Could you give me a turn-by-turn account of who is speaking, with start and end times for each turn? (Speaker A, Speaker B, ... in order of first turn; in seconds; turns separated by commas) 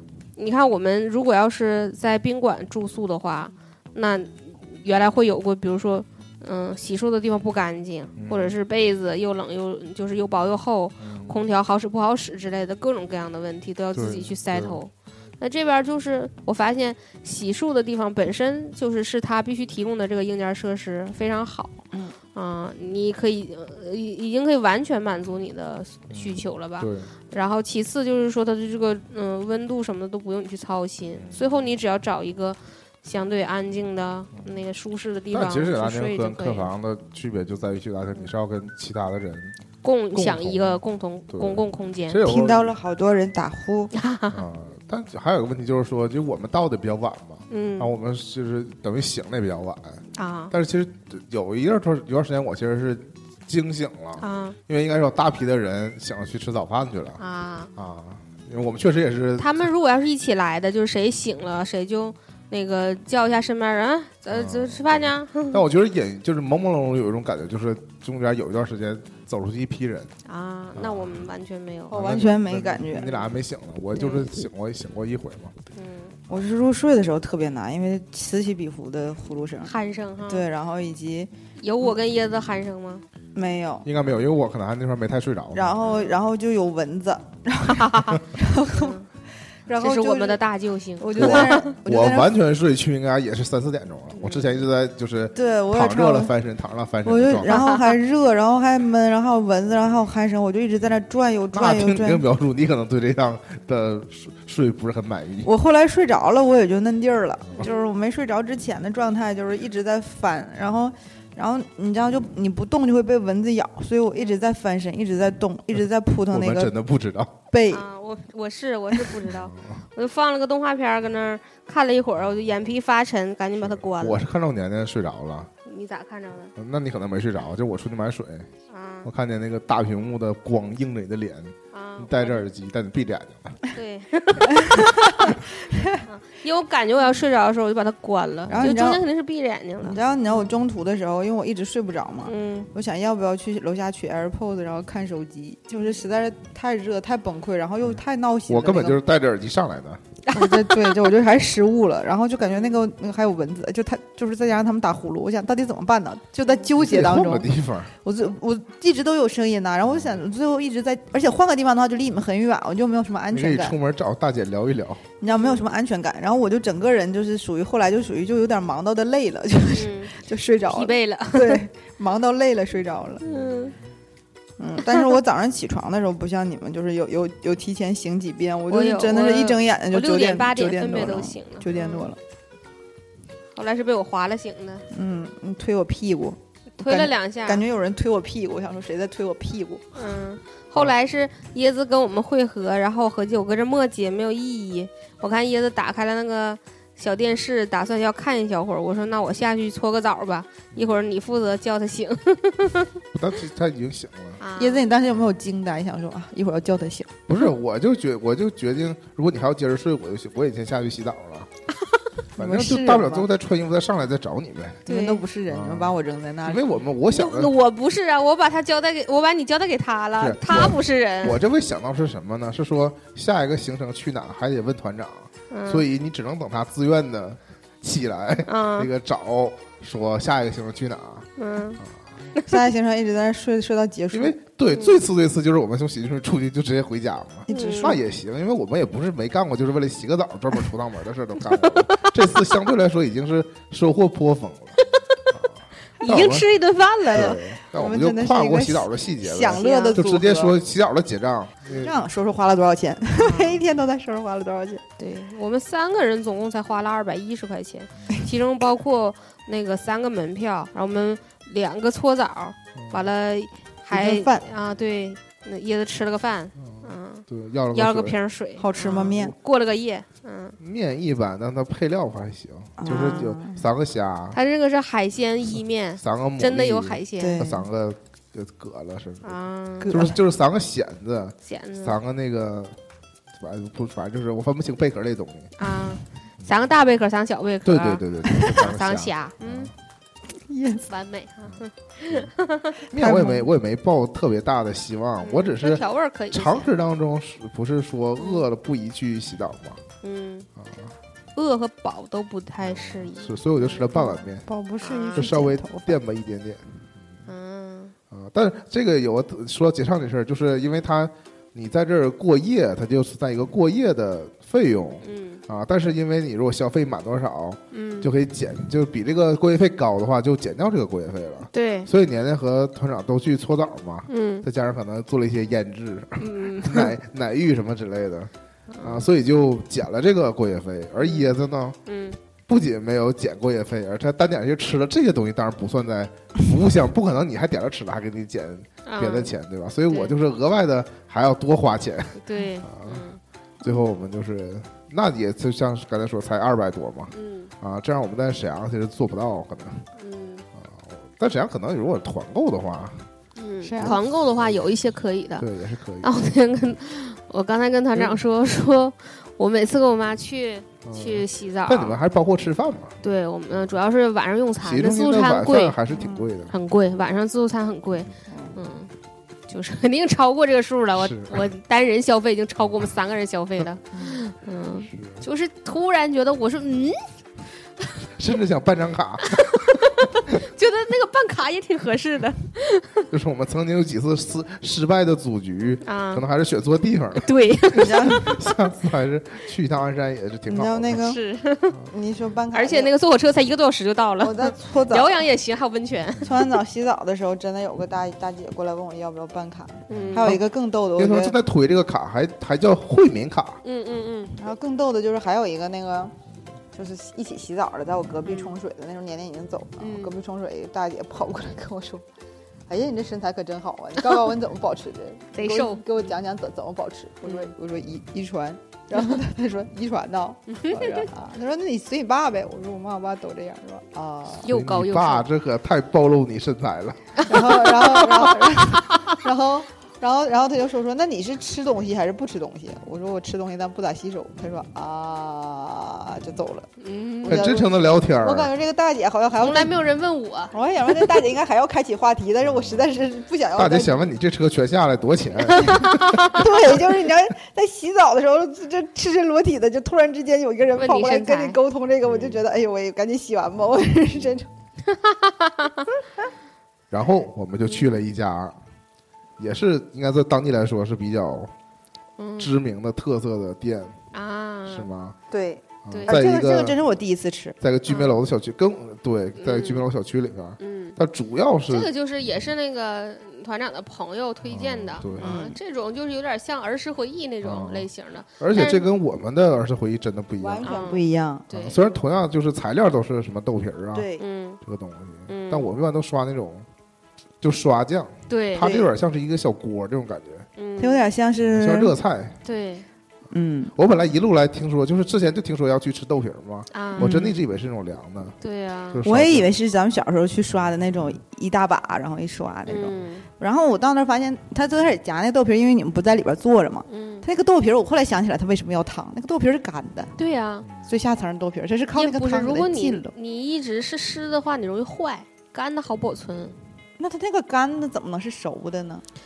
Speaker A: 0.4-21.8, Speaker B: 8.2-8.6, Speaker B: 11.0-11.5, Speaker B: 13.9-14.8, Speaker A: 22.4-36.7, Speaker B: 26.1-27.1, Speaker B: 31.2-31.7, Speaker B: 35.3-39.6, Speaker A: 39.8-42.2, Speaker B: 40.1-42.8, Speaker C: 42.2-43.9, Speaker A: 43.9-44.4, Speaker B: 44.3-57.2, Speaker A: 47.5-47.9, Speaker A: 50.2-50.5, Speaker A: 54.2-54.6, Speaker A: 57.2-57.7, Speaker B: 57.8-59.7, Speaker A: 59.4-65.6, Speaker B: 64.3-70.1, Speaker A: 70.2-72.2, Speaker B: 70.8-71.2, Speaker C: 71.9-73.2, Speaker B: 71.9-75.5, Speaker A: 74.0-74.3, Speaker A: 75.8-76.2, Speaker C: 76.3-79.7, Speaker A: 79.6-80.5, Speaker C: 80.3-81.3, Speaker A: 81.6-83.0, Speaker C: 83.3-83.9, Speaker B: 83.8-85.8, Speaker C: 85.5-89.0, Speaker A: 85.8-86.2, Speaker A: 87.7-88.2, Speaker A: 88.7-89.1, Speaker C: 89.7-90.4, Speaker A: 89.8-91.7, Speaker C: 91.0-92.3, Speaker B: 91.2-97.6, Speaker A: 94.1-94.6, Speaker C: 95.3-96.3, Speaker C: 97.0-102.2, Speaker A: 97.5-98.0, Speaker B: 101.5-105.5, Speaker C: 105.4-116.7, Speaker A: 107.6-107.9, Speaker B: 116.3-117.4, Speaker C: 117.5-117.8, Speaker A: 117.7-124.2, Speaker B: 119.3-119.8, Speaker B: 123.6-125.5, Speaker A: 125.7-126.5, Speaker B: 126.6-128.5, Speaker A: 128.7-129.1, Speaker B: 129.0-133.6, Speaker A: 131.7-132.4, Speaker A: 133.7-140.0, Speaker C: 134.5-136.0, Speaker B: 138.5-138.7, Speaker C: 138.5-139.0, Speaker C: 139.8-149.0, Speaker A: 142.2-142.7, Speaker B: 148.5-150.0, Speaker A: 150.3-150.9, Speaker C: 150.3-157.5, Speaker B: 156.8-157.9, Speaker C: 158.0-163.8, Speaker B: 163.3-165.1, Speaker C: 165.2-173.2, Speaker A: 165.3-165.6, Speaker A: 169.7-171.6, Speaker B: 173.2-173.7, Speaker A: 173.2-173.8, Speaker C: 174.6-182.2, Speaker A: 178.7-182.1, Speaker A: 183.6-184.8, Speaker C: 184.9-189.9, Speaker A: 186.8-187.6, Speaker A: 189.9-202.9, Speaker B: 200.8-201.0, Speaker B: 203.1-204.4, Speaker A: 204.4-204.8, Speaker C: 204.6-207.1, Speaker B: 207.3-211.5, Speaker C: 212.4-213.3, Speaker B: 212.4-214.9, Speaker C: 214.9-216.7, Speaker A: 214.9-215.2, Speaker B: 215.5-217.5, Speaker A: 217.1-221.4, Speaker B: 220.2-231.3, Speaker A: 225.5-225.8, Speaker A: 228.5-228.9, Speaker A: 231.4-231.8, Speaker B: 231.8-232.2, Speaker C: 232.5-234.4, Speaker B: 234.1-244.8, Speaker A: 234.7-235.0, Speaker C: 237.5-238.0, Speaker A: 237.5-238.0, Speaker A: 241.6-242.1, Speaker B: 245.3-246.5, Speaker A: 246.0-247.4, Speaker C: 247.1-250.6, Speaker B: 247.1-252.0, Speaker A: 249.6-250.0, Speaker C: 251.7-254.8, Speaker A: 253.2-253.6, Speaker A: 255.0-270.6, Speaker B: 262.8-263.1, Speaker C: 263.9-264.5, Speaker B: 266.6-268.2, Speaker C: 268.6-269.3, Speaker B: 270.6-274.4, Speaker C: 272.8-273.6, Speaker A: 272.9-273.3, Speaker A: 274.3-277.4, Speaker B: 276.0-282.8, Speaker C: 277.2-277.7, Speaker A: 279.2-280.1, Speaker C: 279.8-280.2, Speaker A: 281.4-282.0, Speaker B: 283.4-285.6, Speaker A: 285.6-289.7, Speaker B: 287.6-289.7, Speaker C: 290.4-290.9, Speaker A: 290.9-292.8, Speaker B: 292.9-299.8, Speaker C: 292.9-293.5, Speaker A: 295.2-296.7, Speaker A: 298.2-298.4, Speaker A: 300.0-300.5, Speaker B: 300.6-300.9, Speaker A: 301.4-304.2, Speaker B: 302.6-304.5, Speaker C: 304.4-306.0, Speaker A: 304.8-305.3, Speaker B: 305.1-307.1, Speaker A: 307.3-307.9, Speaker B: 308.1-328.3, Speaker A: 315.0-315.4, Speaker A: 317.7-318.1, Speaker A: 321.5-321.9, Speaker A: 324.1-324.5, Speaker A: 326.2-326.9, Speaker A: 328.7-329.1, Speaker B: 328.8-331.8, Speaker A: 331.0-331.3, Speaker A: 331.9-332.2, Speaker B: 332.5-343.1, Speaker A: 338.9-339.3, Speaker A: 339.9-340.1, Speaker A: 342.2-343.2, Speaker B: 343.6-349.9, Speaker A: 347.1-347.5, Speaker A: 350.0-350.4, Speaker B: 350.6-353.1, Speaker A: 353.4-355.5, Speaker C: 353.6-354.0, Speaker B: 355.4-356.1, Speaker A: 356.0-362.0, Speaker B: 357.9-358.2, Speaker B: 360.9-363.0, Speaker A: 363.0-365.8, Speaker B: 364.6-366.6, Speaker C: 365.9-366.3, Speaker A: 366.5-368.9, Speaker C: 368.3-368.6, Speaker A: 369.5-377.1, Speaker B: 370.9-371.5, Speaker C: 373.9-374.2, Speaker B: 374.9-375.3, Speaker B: 378.2-379.8, Speaker A: 379.3-383.1, Speaker B: 383.1-391.0, Speaker A: 385.9-386.2, Speaker A: 387.2-388.5, Speaker C: 387.7-388.3, Speaker C: 390.5-391.2, Speaker A: 390.9-391.8, Speaker C: 391.9-392.9, Speaker A: 392.5-396.4, Speaker C: 394.2-395.1, Speaker C: 396.2-401.4, Speaker A: 399.9-400.4, Speaker B: 399.9-403.6, Speaker A: 403.6-404.4, Speaker C: 404.4-406.1, Speaker C: 406.7-412.1, Speaker A: 408.2-408.5, Speaker A: 409.8-410.1, Speaker C: 412.7-424.5, Speaker A: 415.4-416.0, Speaker A: 417.2-417.5, Speaker A: 420.5-421.1, Speaker A: 424.4-425.3, Speaker B: 424.5-427.2, Speaker A: 427.2-429.0, Speaker C: 427.3-436.7, Speaker A: 436.8-437.6, Speaker B: 437.2-438.5, Speaker C: 437.2-439.8, Speaker A: 439.4-441.2, Speaker C: 440.5-444.0, Speaker B: 442.5-442.9, Speaker B: 443.6-446.4, Speaker C: 445.5-454.5, Speaker A: 445.7-446.4, Speaker A: 450.8-451.6, Speaker A: 454.9-455.9, Speaker B: 456.9-458.6, Speaker B: 459.4-461.5, Speaker A: 462.2-462.5, Speaker B: 462.4-464.0, Speaker A: 464.1-464.9, Speaker B: 464.7-465.2, Speaker C: 465.3-467.6, Speaker B: 465.9-466.8, Speaker A: 465.9-466.2, Speaker B: 467.6-471.9, Speaker A: 467.9-468.2, Speaker A: 469.4-469.9, Speaker A: 470.6-471.0, Speaker A: 471.7-478.9, Speaker B: 474.5-475.4, Speaker C: 475.2-475.6, Speaker B: 477.4-477.9, Speaker B: 478.4-480.8, Speaker C: 480.4-481.4, Speaker A: 480.6-481.8, Speaker B: 481.5-484.1, Speaker C: 483.9-484.2, Speaker A: 484.2-484.6, Speaker B: 484.6-486.7, Speaker A: 485.3-485.7, Speaker B: 487.4-490.5, Speaker A: 488.3-488.9, Speaker C: 488.6-488.9, Speaker A: 490.6-491.1, Speaker C: 490.8-491.9, Speaker B: 491.5-492.4, Speaker A: 492.4-492.9, Speaker C: 493.3-493.7, Speaker B: 493.8-498.4, Speaker A: 496.7-497.2, Speaker C: 497.0-497.3, Speaker A: 498.4-499.0, Speaker B: 498.9-499.5, Speaker C: 499.0-510.1, Speaker A: 502.7-503.3, Speaker A: 506.9-507.3, Speaker A: 510.2-510.7, Speaker C: 510.9-513.1, Speaker A: 511.9-516.6, Speaker C: 517.0-519.0